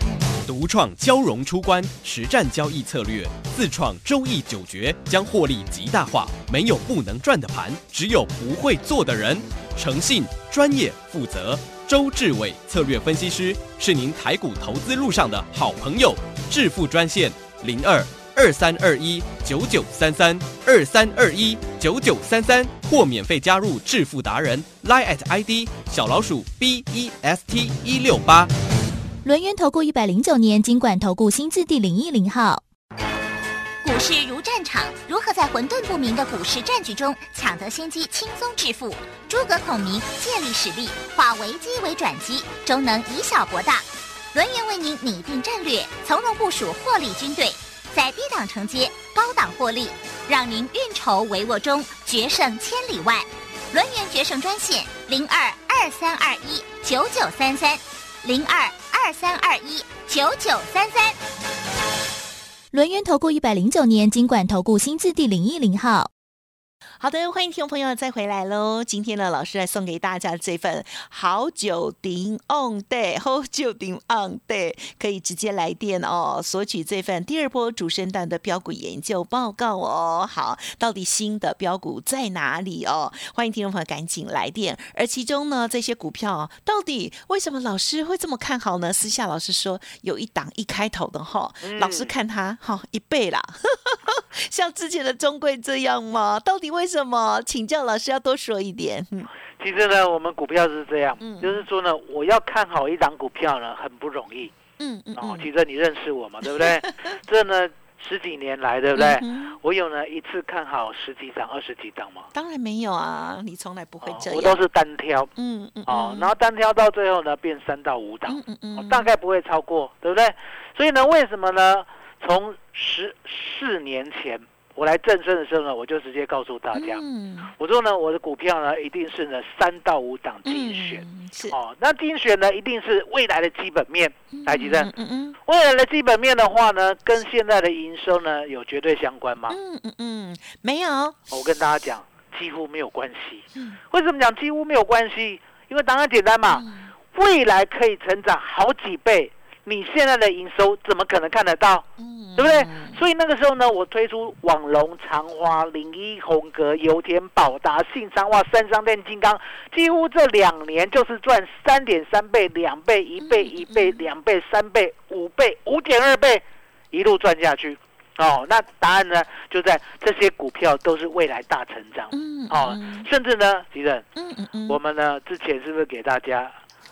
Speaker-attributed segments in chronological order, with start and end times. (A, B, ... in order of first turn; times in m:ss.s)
0:00.4-0:28.5 A
0:29.2-0:32.6 B
0:33.8-1:01.2 C
1:02.7-1:06.1 B
1:07.0-1:39.3 D
1:31.6-1:32.1 E
1:39.6-1:44.5 E
1:41.2-1:41.6 D
1:44.8-1:45.5 D
1:45.2-1:52.3 E
1:46.5-1:46.8 D
1:48.9-1:49.6 D
1:52.3-1:54.6 D
1:54.0-1:55.3 E
1:55.4-1:56.3 D
1:55.9-2:07.0 E
1:58.2-1:59.1 D
2:06.7-2:07.5 D
2:07.5-2:14.9 E
2:10.4-2:11.6 D
2:14.3-2:15.4 D
2:15.4-2:19.6 E
2:19.5-2:21.2 D
2:21.3-2:31.8 E
2:23.5-2:23.8 D
2:26.5-2:26.9 D
2:32.0-2:33.0 D
2:32.4-2:54.0 E
2:43.2-2:44.0 D
2:52.1-2:53.1 D
2:54.1-2:54.8 D
2:54.7-2:56.5 E